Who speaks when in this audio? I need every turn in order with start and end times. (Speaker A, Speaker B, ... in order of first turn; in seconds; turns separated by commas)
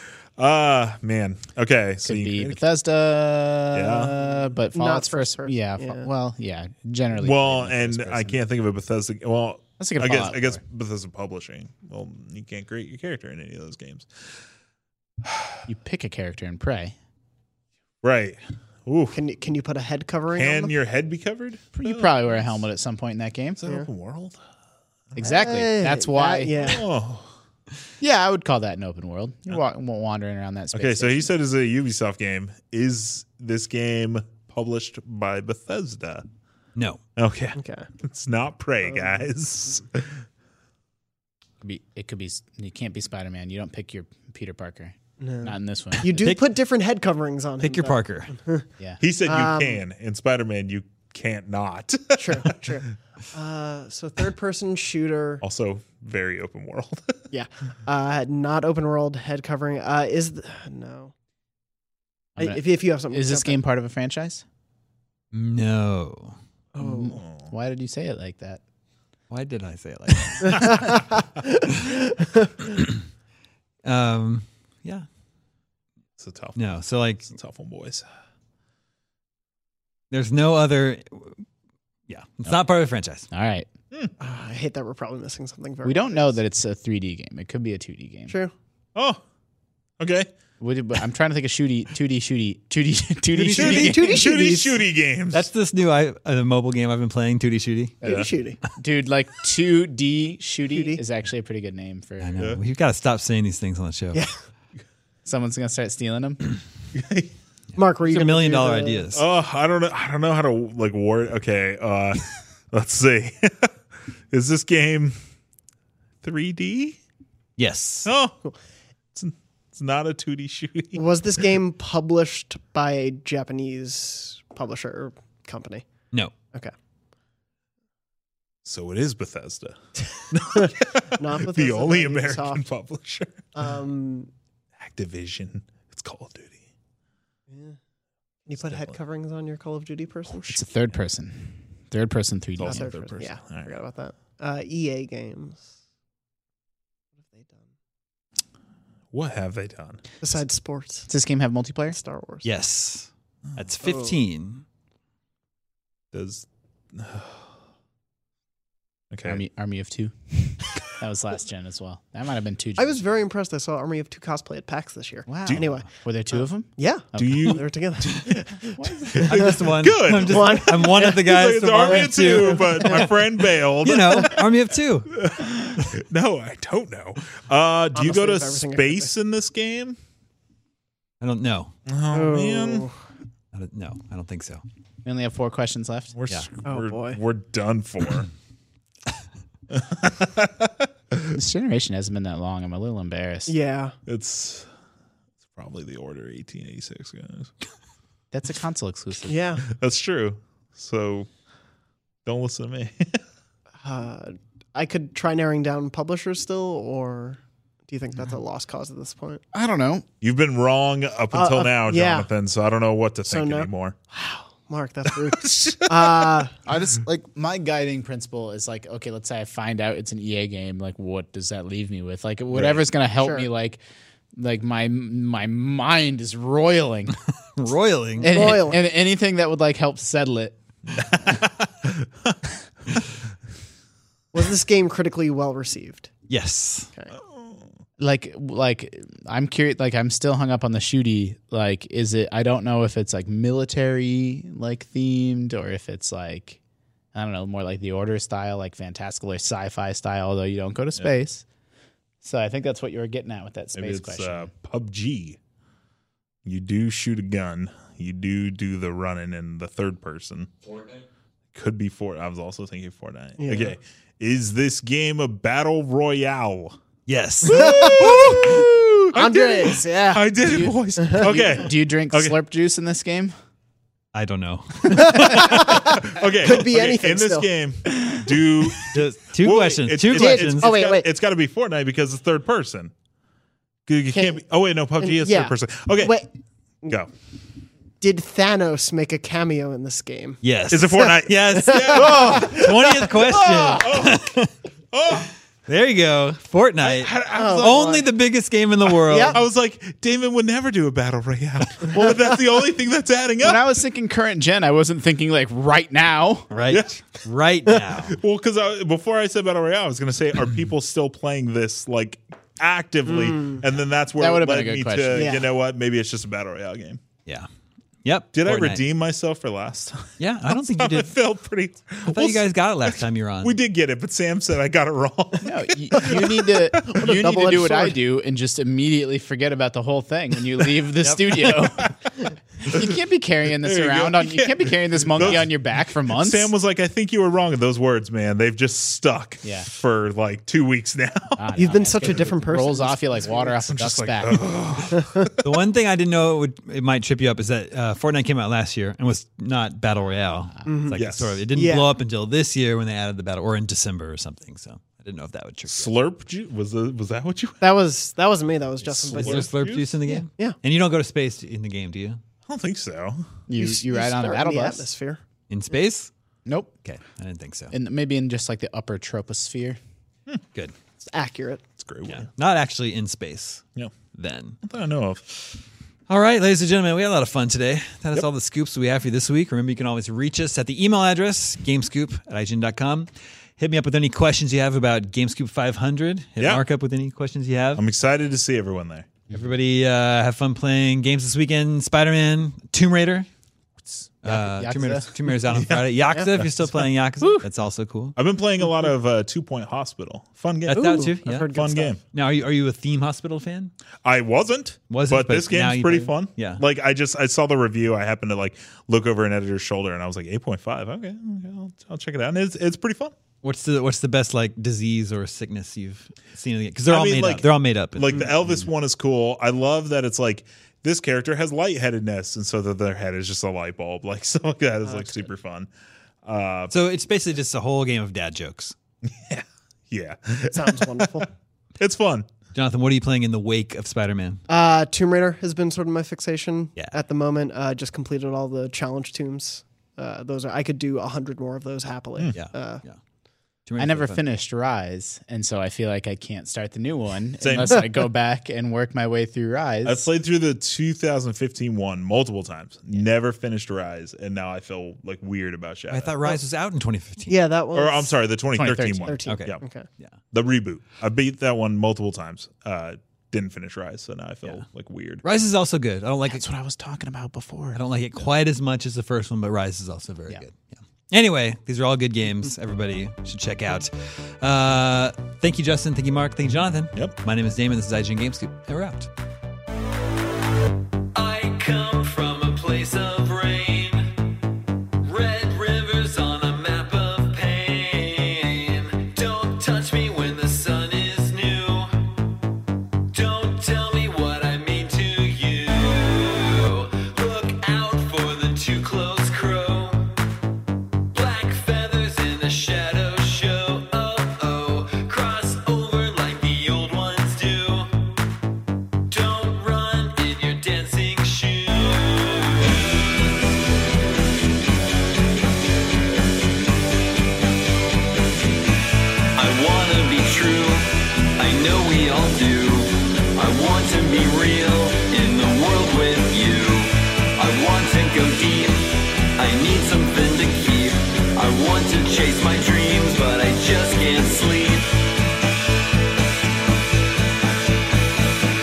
Speaker A: 0.4-2.6, Speaker B: 2.0-8.4, Speaker A: 3.7-4.1, Speaker C: 4.7-6.1, Speaker A: 7.2-14.1, Speaker B: 9.8-10.6, Speaker A: 15.2-15.6, Speaker B: 15.7-16.9, Speaker A: 18.0-19.2, Speaker C: 19.1-20.7, Speaker A: 20.3-22.5, Speaker B: 21.8-23.6, Speaker A: 23.6-24.4, Speaker B: 25.1-26.5, Speaker C: 25.2-26.8, Speaker A: 26.6-27.3, Speaker B: 28.0-31.3, Speaker A: 30.7-36.2, Speaker D: 36.7-37.0, Speaker A: 37.2-40.2, Speaker C: 37.5-37.9, Speaker C: 38.9-39.2, Speaker B: 41.6-46.3, Speaker C: 45.2-48.7, Speaker D: 46.2-46.4, Speaker D: 47.6-48.3, Speaker A: 49.0-52.6, Speaker C: 49.2-49.8, Speaker C: 52.2-55.4, Speaker A: 55.4-57.2, Speaker C: 57.3-61.1, Speaker C: 62.4-63.6, Speaker B: 62.4-64.4, Speaker D: 65.3-66.3, Speaker C: 66.8-67.2, Speaker B: 66.8-68.6, Speaker A: 67.0-67.5, Speaker D: 69.3-70.8, Speaker C: 70.4-72.7, Speaker D: 73.8-75.0, Speaker A: 76.2-76.6, Speaker D: 76.5-77.3, Speaker A: 77.2-78.0, Speaker D: 80.1-81.4, Speaker D: 82.1-83.3, Speaker B: 83.3-83.7, Speaker C: 84.2-86.3, Speaker B: 85.8-88.3, Speaker A: 88.9-89.2, Speaker A: 90.0-90.3, Speaker B: 90.6-94.2, Speaker D: 93.3-94.0, Speaker C: 93.5-94.8, Speaker A: 93.6-95.5, Speaker D: 95.3-98.0, Speaker C: 98.0-98.6, Speaker A: 98.0-98.3, Speaker B: 98.8-102.4, Speaker C: 100.7-101.0, Speaker D: 102.2-104.3, Speaker B: 105.2-106.4, Speaker A: 106.9-107.3, Speaker C: 107.8-109.1, Speaker D: 108.0-109.2, Speaker A: 109.1-113.7, Speaker A: 114.3-115.2, Speaker A: 116.2-117.0, Speaker D: 117.6-118.1, Speaker A: 118.0-118.4, Speaker A: 119.1-121.0, Speaker C: 120.9-125.9, Speaker A: 128.6-129.8, Speaker A: 130.3-133.4, Speaker C: 130.3-132.7, Speaker C: 133.5-134.3, Speaker A: 134.8-136.6, Speaker C: 137.5-137.8, Speaker C: 138.4-140.6, Speaker A: 138.6-138.9, Speaker B: 140.5-142.9, Speaker A: 142.6-143.7, Speaker C: 142.6-145.7, Speaker C: 147.3-147.6, Speaker A: 149.1-150.0, Speaker C: 150.2-151.1, Speaker B: 151.1-152.0, Speaker C: 151.9-152.4, Speaker D: 152.4-154.6, Speaker C: 153.8-154.1, Speaker A: 156.1-157.4, Speaker A: 159.1-159.4, Speaker B: 159.2-163.0, Speaker C: 162.8-168.6, Speaker B: 165.3-167.6, Speaker A: 167.2-174.5, Speaker B: 168.6-169.2, Speaker C: 169.1-169.5, Speaker D: 169.2-173.1, Speaker C: 170.1-171.2, Speaker C: 171.8-173.3, Speaker D: 173.8-175.2, Speaker A: 175.1-180.0, Speaker C: 177.9-179.1, Speaker D: 181.2-181.7, Speaker A: 181.9-182.8, Speaker C: 182.1-182.9, Speaker D: 183.5-184.6, Speaker B: 185.0-186.1, Speaker A: 186.1-188.3, Speaker C: 186.6-187.2, Speaker A: 189.7-191.2, Speaker B: 191.3-193.5, Speaker C: 193.5-193.9, Speaker A: 194.1-194.7, Speaker A: 195.5-197.5, Speaker B: 198.3-199.3, Speaker C: 199.3-199.6, Speaker A: 199.6-201.3, Speaker A: 202.2-203.2, Speaker C: 203.8-209.4, Speaker B: 209.5-210.1, Speaker A: 210.2-213.9, Speaker C: 211.3-212.3, Speaker C: 213.3-216.6, Speaker A: 215.2-216.4, Speaker B: 216.6-223.8, Speaker A: 222.5-222.8, Speaker C: 223.2-223.5, Speaker B: 224.3-227.2, Speaker D: 227.6-228.6, Speaker B: 228.2-230.6, Speaker C: 228.2-228.8, Speaker A: 230.9-232.4, Speaker C: 234.3-236.1, Speaker D: 236.3-236.9, Speaker A: 237.3-237.6, Speaker B: 238.0-246.6, Speaker B: 247.1-251.4, Speaker B: 252.2-254.5, Speaker A: 253.8-255.4, Speaker A: 256.4-260.5, Speaker A: 261.5-266.8, Speaker C: 263.4-263.7, Speaker D: 267.1-267.7, Speaker C: 267.5-271.5, Speaker A: 267.5-272.3, Speaker B: 270.4-273.3, Speaker D: 274.1-275.3, Speaker C: 274.9-277.5, Speaker A: 275.1-282.9, Speaker B: 277.9-278.4, Speaker D: 278.9-280.7, Speaker C: 280.1-281.1, Speaker A: 283.9-286.2, Speaker C: 284.1-284.4, Speaker C: 285.0-286.3, Speaker C: 288.0-290.4, Speaker D: 290.4-294.6, Speaker A: 290.7-294.3, Speaker C: 291.5-292.7, Speaker A: 294.9-295.3, Speaker D: 295.7-299.4, Speaker A: 296.8-298.0, Speaker C: 297.3-298.0, Speaker C: 299.1-299.4, Speaker A: 299.2-303.6, Speaker B: 303.4-306.5, Speaker D: 306.5-308.2, Speaker A: 306.7-307.0, Speaker A: 308.1-317.0, Speaker C: 313.1-313.6, Speaker B: 314.2-315.4, Speaker C: 315.1-315.5, Speaker D: 318.0-318.8, Speaker A: 318.3-322.4, Speaker D: 320.2-321.1, Speaker D: 322.1-323.5, Speaker A: 323.4-327.0, Speaker B: 325.4-331.9, Speaker C: 325.9-328.0, Speaker A: 331.4-331.9, Speaker B: 332.6-336.5, Speaker A: 333.6-335.5, Speaker A: 336.1-341.5, Speaker B: 339.4-339.7, Speaker B: 341.4-344.5, Speaker C: 341.5-343.5, Speaker A: 343.6-345.5, Speaker C: 345.0-345.2, Speaker D: 345.4-355.9, Speaker C: 350.6-351.9, Speaker A: 350.9-351.4, Speaker A: 355.7-357.6, Speaker C: 357.6-359.6, Speaker A: 358.8-359.9, Speaker D: 359.1-362.2, Speaker C: 360.1-360.6, Speaker A: 362.4-363.4, Speaker B: 363.5-364.9, Speaker C: 363.6-365.2, Speaker D: 365.5-366.1, Speaker B: 366.4-366.7, Speaker D: 366.8-367.7, Speaker B: 367.7-369.8, Speaker C: 371.0-371.6, Speaker A: 371.8-372.3, Speaker D: 372.0-374.6, Speaker A: 374.6-375.2, Speaker D: 376.1-387.8, Speaker A: 386.4-386.6, Speaker A: 387.8-389.1, Speaker D: 389.3-393.3, Speaker D: 394.2-398.2, Speaker B: 394.2-395.1, Speaker A: 395.5-396.8, Speaker B: 397.2-397.4, Speaker A: 398.1-402.0, Speaker D: 400.7-401.5, Speaker C: 400.7-402.0, Speaker D: 402.1-403.7, Speaker A: 404.0-413.1, Speaker D: 404.9-406.6, Speaker D: 413.4-418.7, Speaker A: 416.9-425.7, Speaker C: 424.8-425.3, Speaker A: 426.2-426.7, Speaker D: 426.7-428.7, Speaker A: 429.1-431.3, Speaker C: 430.5-431.3, Speaker A: 431.8-432.3, Speaker D: 432.5-434.4, Speaker C: 434.5-442.8, Speaker D: 442.3-443.0, Speaker D: 443.6-444.2, Speaker B: 443.8-450.1, Speaker A: 447.4-447.9, Speaker A: 449.8-456.4, Speaker D: 455.9-457.4, Speaker C: 457.3-458.2, Speaker A: 457.7-459.6, Speaker B: 458.5-459.2, Speaker C: 459.1-459.9, Speaker D: 459.2-460.2, Speaker A: 460.3-465.2, Speaker D: 465.2-466.4, Speaker B: 466.2-467.8, Speaker D: 467.7-479.1, Speaker E: 481.1-484.0, Speaker E: 485.0-491.9, Speaker E: 493.1-500.0, Speaker D: 497.9-498.4, Speaker E: 501.1-507.9, Speaker D: 501.1-503.2, Speaker E: 509.1-512.4, Speaker D: 509.3-511.7, Speaker E: 519.4-534.9